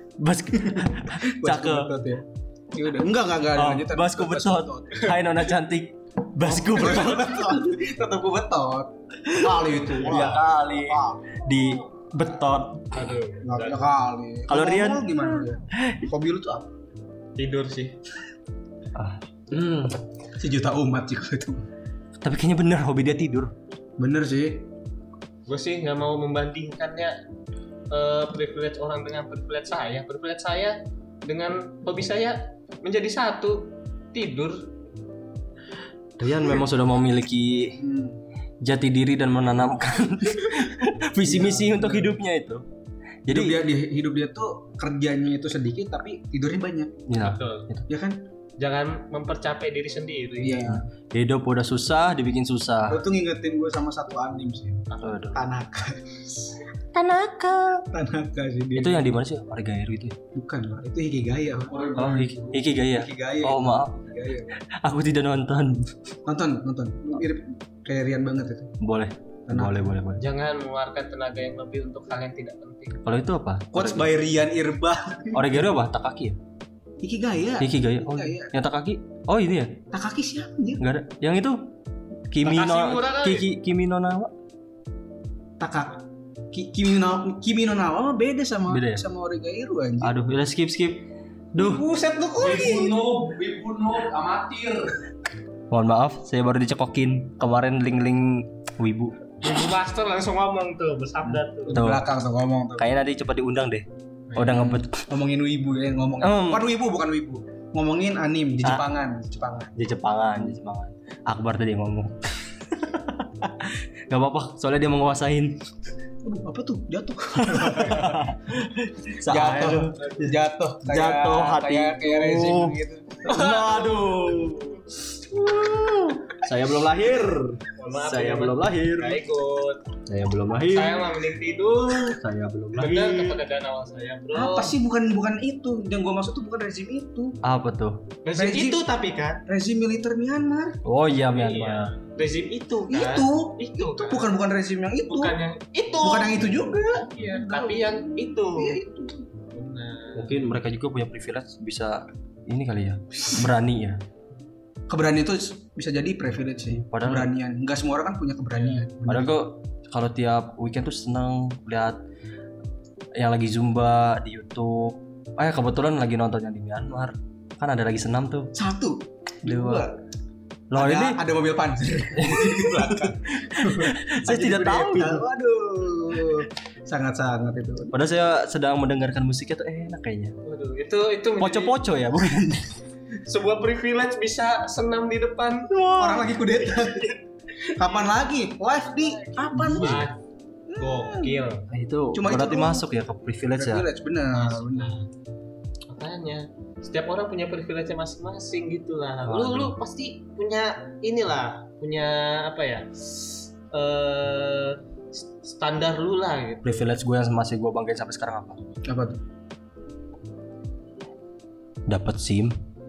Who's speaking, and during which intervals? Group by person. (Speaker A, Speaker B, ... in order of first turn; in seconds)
Speaker A: 0.2-1.9, 3.5-7.7, 9.4-13.1, 14.5-16.1, 18.9-20.0, 22.2-23.5, 36.2-37.8, 38.6-42.6, 43.3-43.6, 47.1-47.9, 51.1-53.0, 55.0-55.4, 56.9-57.8, 58.8-60.1, 62.0-63.9, 64.7-65.9, 68.8-70.2, 73.0-74.1, 75.3-76.4, 77.6-79.8, 80.8-81.7, 82.3-84.3, 88.7-89.0, 90.0-91.8, 92.4-93.1, 95.7-99.2, 101.7-102.1, 102.8-105.0, 106.2-106.7, 109.8-115.6, 117.4-120.3, 120.8-129.2, 130.1-131.1, 132.1-133.4, 137.4-138.1, 140.8-141.9, 150.1-154.0, 156.7-157.3, 159.1-162.0, 163.2-168.5, 169.4-169.9, 170.7-171.2, 172.1-175.2, 177.9-180.4, 181.4-182.8, 185.7-186.4, 189.6-190.1, 191.7-193.9, 199.3-199.8, 206.6-208.6, 211.9-212.6
Speaker B: 0.6-5.2, 6.4-11.4, 13.4-16.7, 20.4-21.6, 24.0-24.6, 37.8-38.2, 41.2-42.1, 43.3-47.0, 47.9-48.2, 50.4-50.8, 52.9-56.5, 57.9-59.1, 60.4-64.5, 66.3-68.7, 69.5-70.0, 73.7-75.7, 77.0-78.5, 79.9-80.8, 85.6-90.2, 91.5-95.0, 101.7-102.9, 104.5-110.5, 116.2-118.4, 119.2-123.3, 134.3-137.4, 138.4-138.8, 139.5-140.8, 142.9-145.4, 146.0-149.3, 154.9-159.4, 168.6-170.0, 170.7-177.9, 186.0-187.1, 187.8-190.1, 190.7-191.4, 192.1-192.9, 193.5-194.9, 208.9-209.2
Speaker C: 12.9-13.8, 17.4-18.0, 25.5-27.1, 27.9-34.7, 47.2-47.7, 48.6-50.8, 70.2-73.0, 82.4-83.5, 99.4-101.8, 104.3-104.6, 123.3-123.9, 127.8-129.8, 130.7-132.2, 132.8-134.8, 138.2-139.4, 141.3-144.3, 145.1-148.8, 149.5-150.5, 158.6-158.9, 180.4-181.8, 183.2-185.7, 187.8-188.1, 188.9-190.2, 190.8-191.6, 194.3-195.1, 195.9-206.9